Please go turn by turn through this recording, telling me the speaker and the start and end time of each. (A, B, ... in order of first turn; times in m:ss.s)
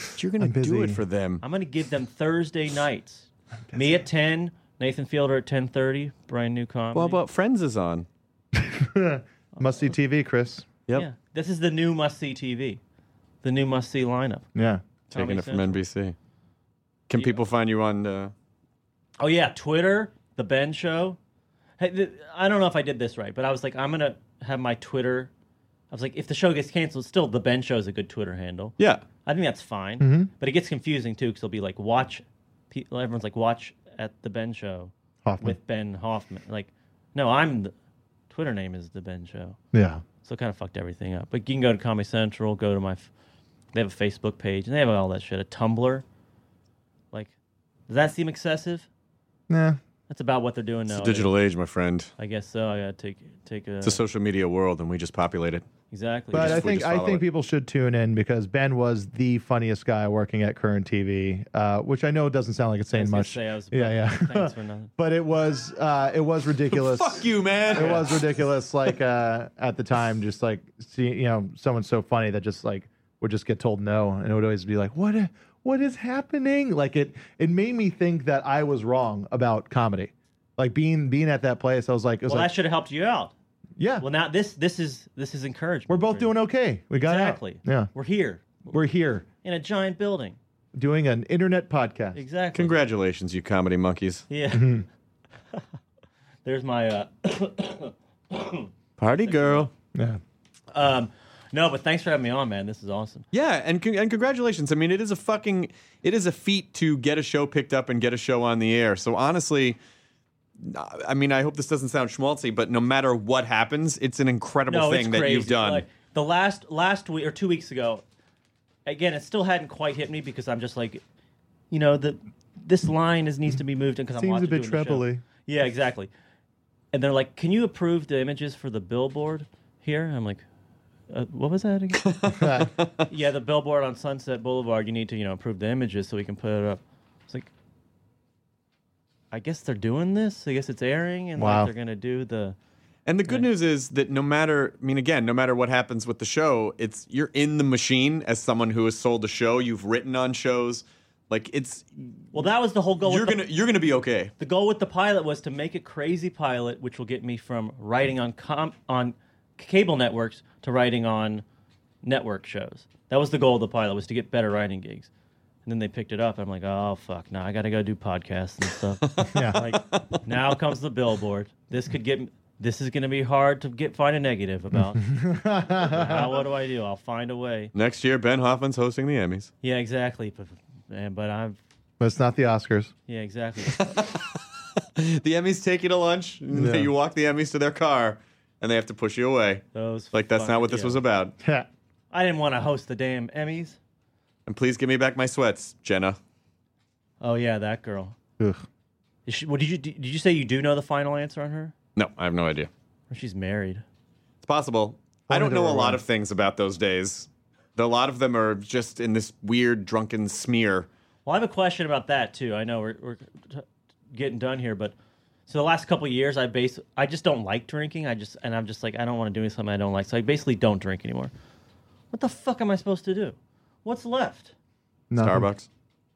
0:00.2-0:01.4 A
0:00.4-0:01.0 B
0:01.4-0:07.2 C
0:03.7-0:04.0 B
0:06.9-0:08.1 A
0:08.6-0:10.7 B
0:09.6-0:09.8 C
0:10.9-0:12.8 C
0:13.4-0:14.5 C
0:14.6-0:14.8 B
0:15.1-0:16.2 A
0:15.1-0:15.8 C
0:17.1-0:18.3 A
0:17.2-0:17.4 C
0:19.2-0:21.2 C
0:21.8-0:25.3 C
0:25.9-0:37.7 C
0:28.8-0:29.0 A
0:30.0-0:30.3 B
0:35.2-0:35.6 B
0:38.3-0:39.6 C
0:39.7-0:40.0 B
0:40.2-0:43.1 C
0:43.7-0:46.0 C
0:47.9-0:48.9 C
0:49.5-0:49.8 B
0:50.1-0:51.3 C
0:50.9-0:52.1 A
0:52.2-0:54.0 C
0:53.8-0:55.6 A
0:55.9-0:56.6 C
0:56.3-0:57.2 A
0:56.3-1:22.5 B
1:02.9-1:04.9 C
1:06.7-1:08.3 A
1:07.7-1:08.1 C
1:22.3-1:23.3 C
1:23.8-1:24.1 B
1:24.0-1:26.3 C
1:25.9-1:27.9 B
1:26.9-1:28.8 C
1:28.7-1:29.2 B
1:29.4-1:30.4 C
1:30.8-1:32.2 B
1:32.2-1:32.8 C
1:32.5-1:34.3 A
1:34.3-1:34.8 C
1:34.5-1:34.8 B
1:36.4-1:38.7 C
1:39.0-1:39.7 A
1:39.2-1:39.7 C
1:39.9-1:40.2 B
1:40.7-1:43.3 C
1:43.3-1:49.8 A
1:50.6-1:55.8 A
1:54.7-1:58.0 C
1:58.9-2:01.0 C
2:01.7-2:06.1 C
2:04.2-2:05.2 B
2:06.9-2:10.4 C
2:11.1-2:12.4 C
2:12.0-2:13.0 A
2:12.3-2:12.7 B
2:13.1-2:17.5 C
2:19.3-2:22.6 C
2:21.4-2:21.7 B
2:23.1-2:32.5 A
2:32.3-2:33.5 C
2:33.0-2:34.3 A
2:34.4-2:41.4 C
2:42.0-2:45.1 C
2:45.6-2:55.1 C
2:49.1-2:50.2 A
2:49.3-2:49.6 B
2:55.0-2:56.3 B
2:55.8-2:57.7 C
2:57.7-2:59.5 A
2:59.6-3:01.6 C
3:02.0-3:02.9 B
3:03.1-3:04.0 C
3:03.7-3:04.4 A
3:05.0-3:11.3 A
3:06.5-3:06.9 B
3:09.8-3:11.0 C
3:11.4-3:11.7 B
3:12.1-3:13.8 C
3:14.5-3:16.2 A
3:17.2-3:18.2 C
3:19.3-3:21.7 C
3:22.0-3:22.7 A
3:23.1-3:23.8 C
3:24.4-3:30.9 A
3:25.3-3:26.0 B
3:31.3-3:35.0 C
3:35.5-3:41.3 C
3:42.1-3:44.5 C
3:45.1-3:45.5 B
3:45.2-3:45.7 A